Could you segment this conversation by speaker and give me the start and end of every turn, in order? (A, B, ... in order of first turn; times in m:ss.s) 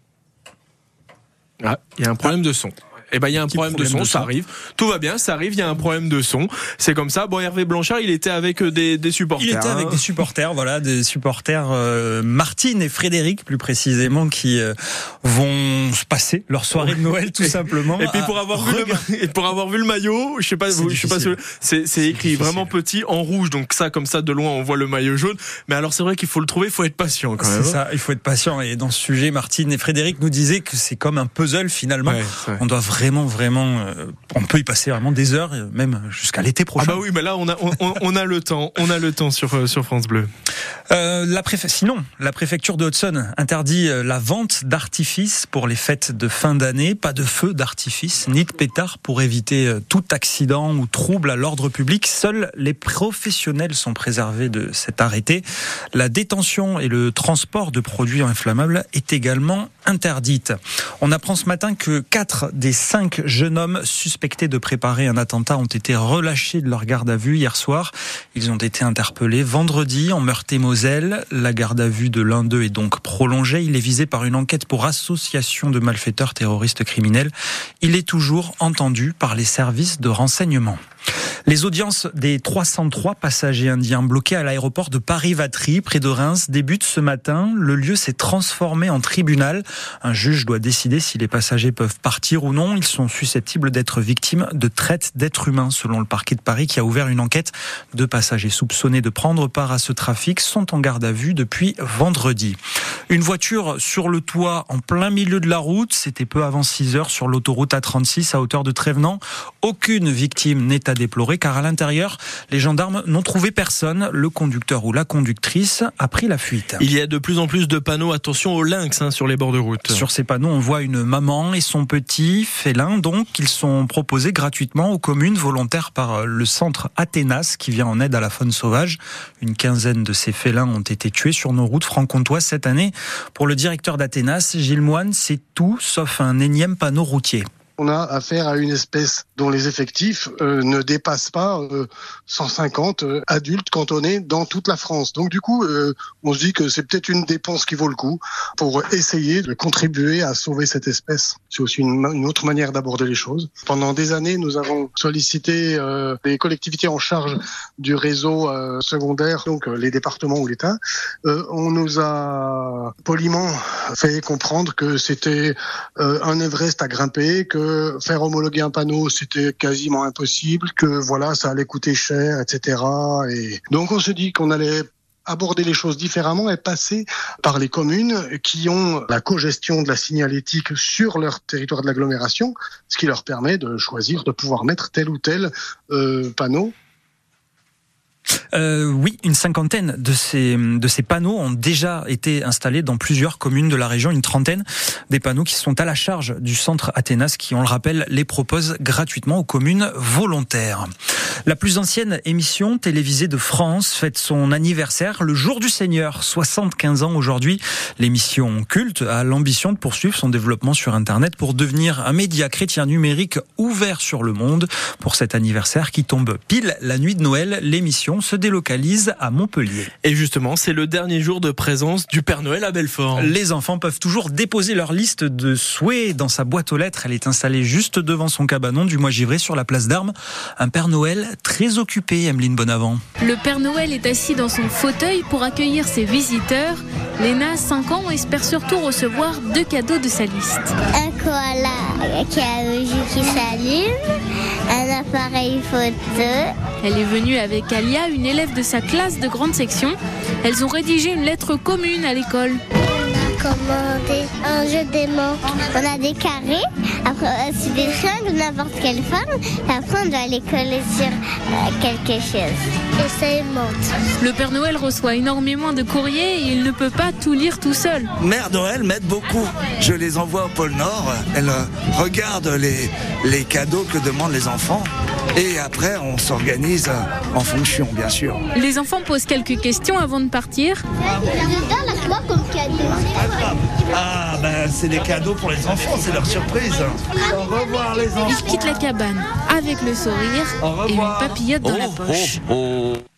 0:01.6-0:10.0 A
0:03.4-0:04.3 B
0:09.4-0:19.0 B
0:16.8-0:27.8 A
0:20.7-0:21.4 B
0:22.0-0:22.8 B
0:27.4-0:37.0 B
0:32.1-0:32.6 A
0:36.8-0:40.3 A
0:40.9-1:20.8 B
1:21.5-1:42.6 B
1:43.1-1:56.8 B
1:56.8-2:00.0 A
1:59.9-2:17.4 B
2:17.8-3:06.7 C
3:08.5-3:20.9 B
3:21.5-3:39.9 B
3:40.0-3:43.3 A
3:43.2-3:53.0 B
3:53.2-4:00.8 D
4:00.9-4:03.9 E
4:04.7-4:06.5 E
4:06.8-4:12.6 D
4:13.0-4:23.8 E
4:24.2-4:28.1 D
4:28.2-4:38.4 F
4:38.5-4:40.8 D
4:41.1-4:41.7 F
4:41.4-4:43.0 E
4:43.0-4:48.6 F
4:48.2-4:52.4 D
4:50.6-4:53.0 F